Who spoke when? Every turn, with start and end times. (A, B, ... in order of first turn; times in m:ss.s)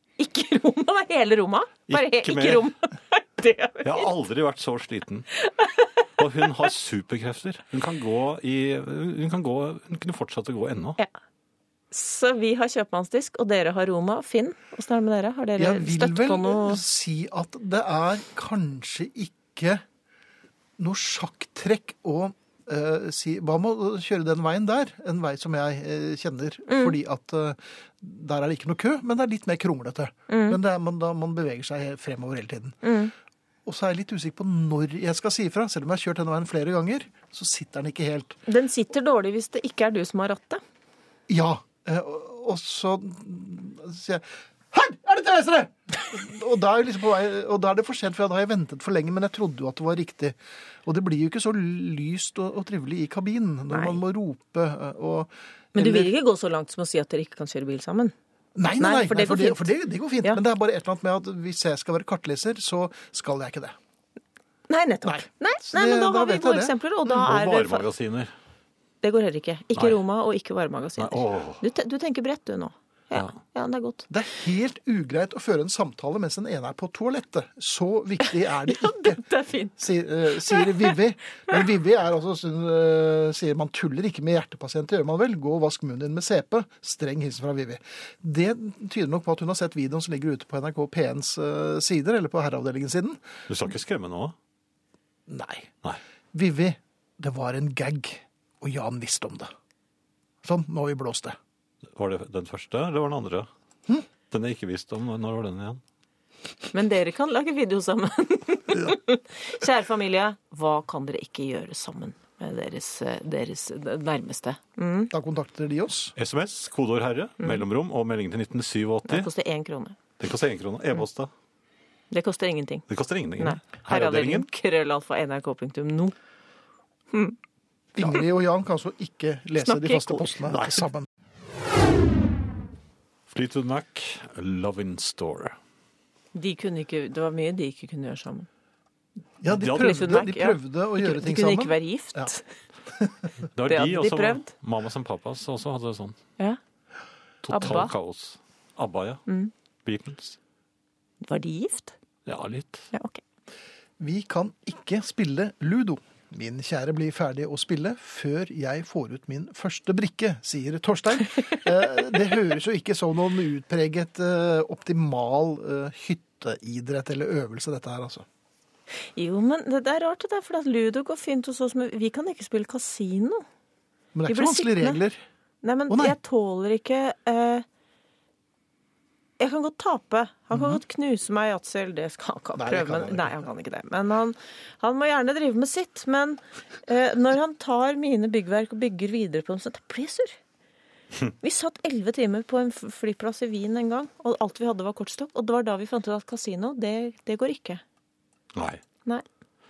0:00.2-0:04.1 A
0:01.9-0:02.7 B
0:03.8-0:05.3 B
0:05.4-0:05.9 A
0:06.2-0:11.0 B
0:11.9-0:16.8 A
0:15.6-0:19.8 C
0:20.8-0:32.8 C
0:26.7-0:27.0 A
0:30.3-0:30.6 A
0:32.8-0:33.1 A
0:33.6-0:38.4 C
0:38.5-0:40.6 A
0:41.3-0:56.1 C
0:53.7-0:54.0 A
0:55.7-0:58.1 A
0:58.6-1:03.7 C
0:58.8-1:00.4 A
1:04.7-1:07.9 A
1:05.0-1:06.7 C
1:07.1-1:08.3 B
1:09.0-1:14.1 A
1:11.0-1:11.6 B
1:14.1-1:19.2 C
1:18.6-1:20.9 A
1:19.8-1:33.2 C
1:33.5-1:34.3 B
1:35.3-1:35.7 C
1:36.3-1:39.5 C
1:40.4-1:41.4 C
1:41.9-1:43.5 B
1:44.3-1:45.8 B
1:46.7-1:55.1 A
1:55.1-1:56.1 C
1:56.2-1:59.3 B
1:59.0-2:00.0 A
2:00.2-2:01.3 B
2:02.1-2:02.8 A
2:02.9-2:04.5 B
2:03.4-2:06.1 A
2:07.1-2:07.4 A
2:07.9-2:11.0 C
2:09.6-2:10.4 A
2:10.5-2:10.8 B
2:13.3-2:15.6 B
2:16.3-2:18.5 A
2:19.4-2:22.3 C
2:19.5-2:20.1 B
2:19.6-2:22.4 A
2:23.5-2:26.2 B
2:23.7-2:24.5 A
2:27.4-2:29.2 B
2:27.5-2:27.9 A
2:29.3-2:29.5 A
2:29.8-2:30.4 B
2:31.2-2:31.9 A
2:32.2-2:32.9 B
2:32.9-2:33.2 A
2:34.0-2:48.2 C
2:49.1-2:53.4 A
2:54.1-2:55.2 C
2:54.3-2:55.0 A
2:55.6-2:57.6 A
2:55.9-2:56.2 C
2:59.4-3:10.4 A
3:00.5-3:00.8 C
3:02.6-3:03.4 C
3:11.4-3:17.8 A
3:18.5-3:18.8 B